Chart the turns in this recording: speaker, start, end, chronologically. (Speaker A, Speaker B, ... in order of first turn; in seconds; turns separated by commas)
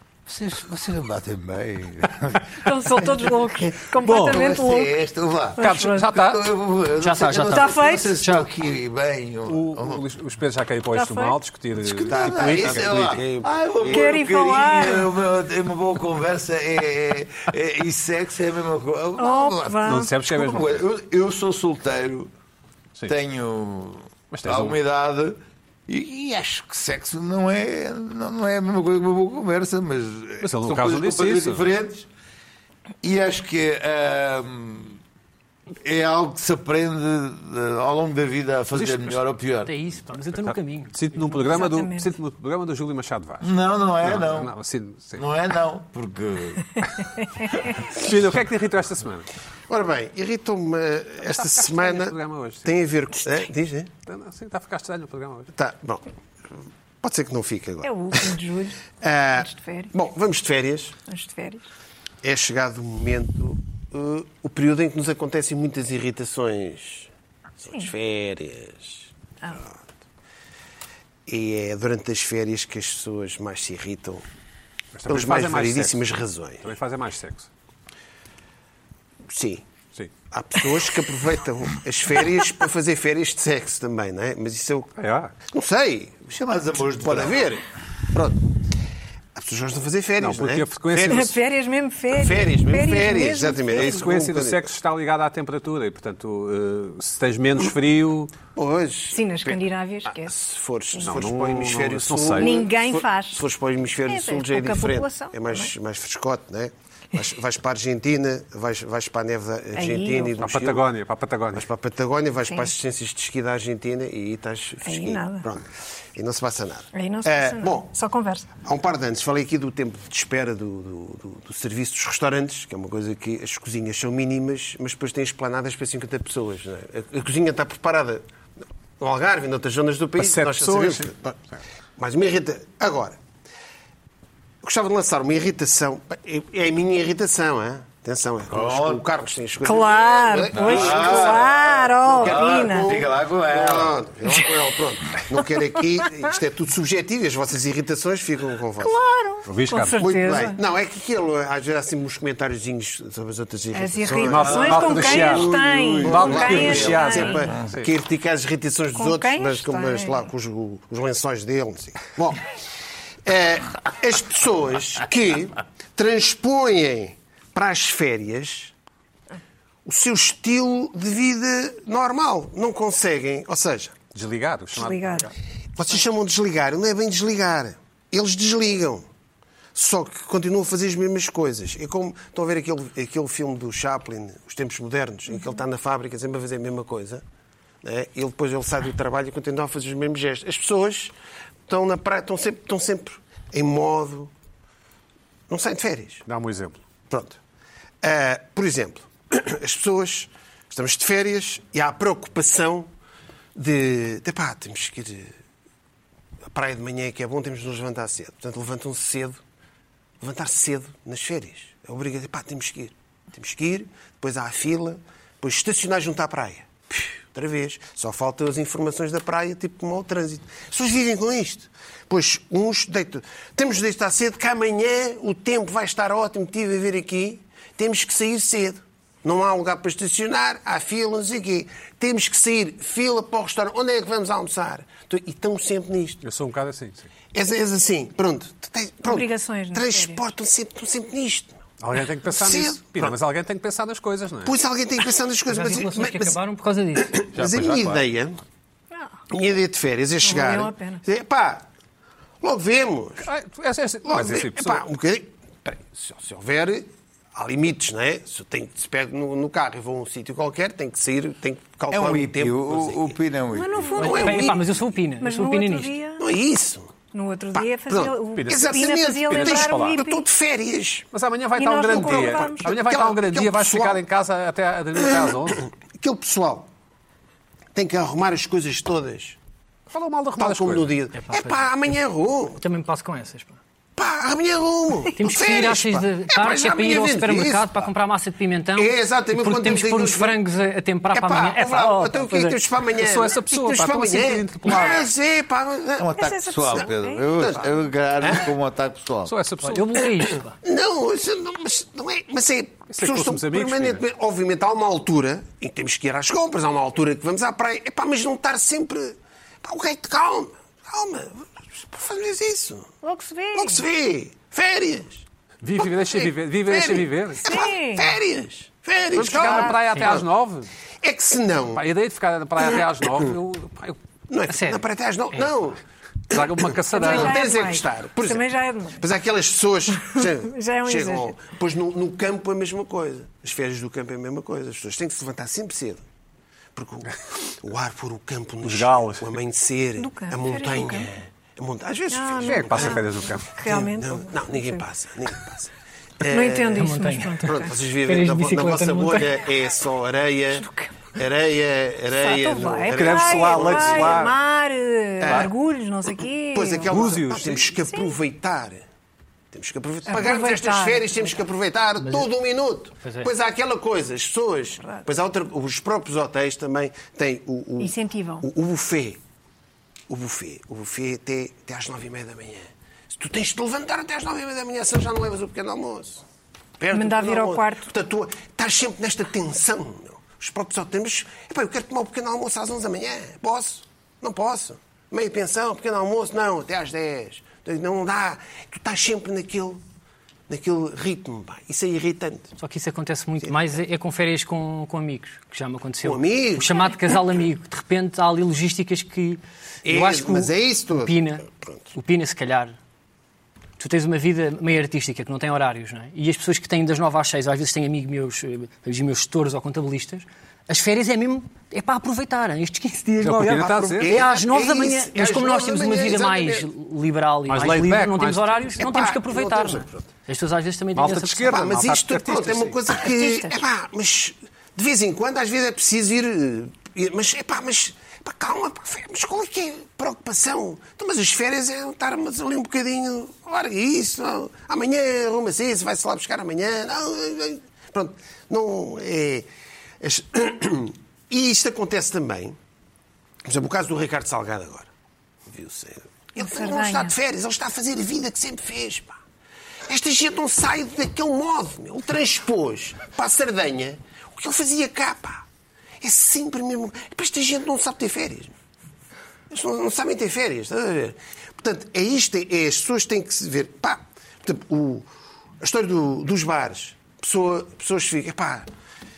Speaker A: 0.2-3.6, Speaker B: 2.6-5.0, Speaker C: 4.0-4.5, Speaker A: 4.2-10.0, Speaker B: 5.6-6.0, Speaker C: 5.6-6.5, Speaker D: 7.0-8.5, Speaker B: 7.5-8.1, Speaker C: 9.5-13.4, Speaker B: 10.9-11.3, Speaker A: 11.8-22.3, Speaker E: 12.1-14.1, Speaker B: 13.9-15.1, Speaker B: 19.2-20.1, Speaker C: 19.8-20.8, Speaker A: 23.1-32.1, Speaker C: 24.3-24.8, Speaker C: 30.4-31.7, Speaker A: 33.0-35.0, Speaker A: 35.8-39.7, Speaker C: 38.7-39.2, Speaker D: 39.6-41.0, Speaker C: 40.4-43.5, Speaker B: 41.3-42.1, Speaker A: 43.4-44.5, Speaker C: 44.0-45.2, Speaker A: 45.1-46.8, Speaker C: 47.8-49.3, Speaker E: 49.7-53.9, Speaker C: 51.3-52.7, Speaker C: 54.0-55.5, Speaker E: 55.5-56.0, Speaker E: 57.0-58.4, Speaker B: 57.8-58.8, Speaker E: 59.0-61.0, Speaker B: 59.4-59.9, Speaker B: 61.1-61.6, Speaker E: 62.2-69.7, Speaker E: 71.2-74.2, Speaker C: 74.9-76.0, Speaker E: 75.0-76.7, Speaker C: 76.6-77.5, Speaker E: 79.3-79.6, Speaker E: 80.3-84.9, Speaker C: 85.0-85.3, Speaker E: 85.5-88.5, Speaker A: 86.3-87.6, Speaker E: 89.3-91.4, Speaker C: 90.2-91.3, Speaker B: 91.1-94.0, Speaker E: 92.1-94.7, Speaker C: 93.7-98.3, Speaker E: 98.5-110.8, Speaker B: 99.1-100.3, Speaker C: 101.0-102.6, Speaker B: 102.4-103.4, Speaker B: 104.0-105.7, Speaker B: 109.7-110.4, Speaker C: 110.4-111.7, Speaker E: 111.5-117.9, Speaker B: 114.8-115.5, Speaker B: 116.9-118.5, Speaker E: 118.6-128.2, Speaker E: 129.0-131.4, Speaker C: 130.2-131.1, Speaker E: 132.0-133.2, Speaker E: 134.6-149.0, Speaker A: 138.5-139.0, Speaker B: 139.6-142.9, Speaker A: 140.5-141.7, Speaker A: 142.2-144.0, Speaker B: 148.8-150.6, Speaker C: 149.4-150.0, Speaker E: 150.0-162.5, Speaker B: 153.7-157.5, Speaker C: 154.2-155.5, Speaker A: 154.4-157.6, Speaker C: 156.0-157.9, Speaker B: 158.9-160.3, Speaker E: 163.2-168.7, Speaker E: 169.8-173.9, Speaker C: 174.1-175.3, Speaker B: 174.7-175.3, Speaker E: 175.8-179.0, Speaker E: 179.7-187.2, Speaker E: 187.8-191.1, Speaker E: 191.7-194.3, Speaker E: 195.5-196.2, Speaker C: 196.2-196.8, Speaker E: 197.1-197.4, Speaker E: 198.0-202.9, Speaker E: 203.5-205.3, Speaker E: 206.5-209.4, Speaker E: 210.2-236.2, Speaker C: 236.2-237.1, Speaker E: 237.3-241.6, Speaker B: 239.0-240.2, Speaker C: 241.8-244.5, Speaker E: 242.3-243.2, Speaker E: 244.4-246.4, Speaker D: 245.5-247.2, Speaker E: 246.9-248.4, Speaker C: 247.3-248.1, Speaker E: 249.3-251.6, Speaker B: 250.2-251.0, Speaker E: 252.4-253.2, Speaker C: 253.2-254.8, Speaker E: 254.0-263.2, Speaker A: 261.9-264.0, Speaker B: 263.5-264.5, Speaker E: 264.0-264.6, Speaker D: 264.0-265.9, Speaker B: 265.2-266.2, Speaker E: 266.2-267.0, Speaker B: 267.1-270.2, Speaker E: 267.5-271.1, Speaker C: 268.3-270.0, Speaker C: 271.1-275.6, Speaker B: 271.6-272.8, Speaker E: 272.2-274.0, Speaker E: 274.9-276.7, Speaker E: 277.7-279.4, Speaker C: 279.9-281.0, Speaker E: 280.4-282.6, Speaker D: 281.1-281.6, Speaker D: 282.6-283.6, Speaker E: 283.9-287.9, Speaker D: 285.1-292.6, Speaker E: 288.8-290.4, Speaker E: 291.1-298.5, Speaker C: 293.0-295.1, Speaker A: 296.0-299.3, Speaker B: 296.1-297.3, Speaker C: 299.2-299.9, Speaker D: 299.6-300.6, Speaker E: 300.6-312.9, Speaker C: 302.9-304.0, Speaker B: 313.0-313.8, Speaker E: 313.5-315.2, Speaker C: 315.6-317.4, Speaker E: 315.8-320.3, Speaker B: 317.4-318.1, Speaker C: 319.1-320.7, Speaker B: 319.4-319.7, Speaker E: 321.0-321.8, Speaker C: 321.7-324.0, Speaker E: 324.3-325.8, Speaker D: 324.5-325.5, Speaker C: 326.3-327.5, Speaker E: 326.3-328.4, Speaker B: 326.9-329.0, Speaker E: 329.0-336.0, Speaker B: 330.0-331.3, Speaker E: 336.7-346.9, Speaker C: 338.6-339.3, Speaker B: 340.0-341.1, Speaker B: 342.1-344.8, Speaker C: 342.4-343.5, Speaker B: 346.3-347.7, Speaker D: 346.8-347.5, Speaker E: 347.4-354.3, Speaker D: 348.0-349.4, Speaker B: 350.6-351.0, Speaker B: 352.1-357.0, Speaker C: 352.9-354.3, Speaker E: 355.2-355.5, Speaker C: 355.2-355.5, Speaker E: 356.5-358.8, Speaker C: 356.9-357.7, Speaker B: 357.8-358.1, Speaker E: 359.5-369.2, Speaker B: 360.1-361.4, Speaker D: 362.0-362.3, Speaker D: 363.0-363.3, Speaker B: 367.8-368.4, Speaker E: 370.1-376.2, Speaker E: 376.8-389.8, Speaker B: 376.9-377.9, Speaker E: 390.5-392.5, Speaker D: 392.6-402.7, Speaker E: 396.0-396.9, Speaker E: 399.8-401.8, Speaker D: 403.8-421.7, Speaker C: 413.2-414.1, Speaker E: 413.4-416.7, Speaker C: 417.5-418.7, Speaker E: 418.8-420.0, Speaker C: 420.9-422.8, Speaker E: 421.4-439.5, Speaker B: 423.0-423.6, Speaker E: 440.0-442.6, Speaker E: 443.4-444.9, Speaker E: 445.5-449.2, Speaker B: 446.4-447.1, Speaker E: 449.9-455.4, Speaker E: 456.0-458.5, Speaker E: 459.5-465.1, Speaker E: 465.6-468.7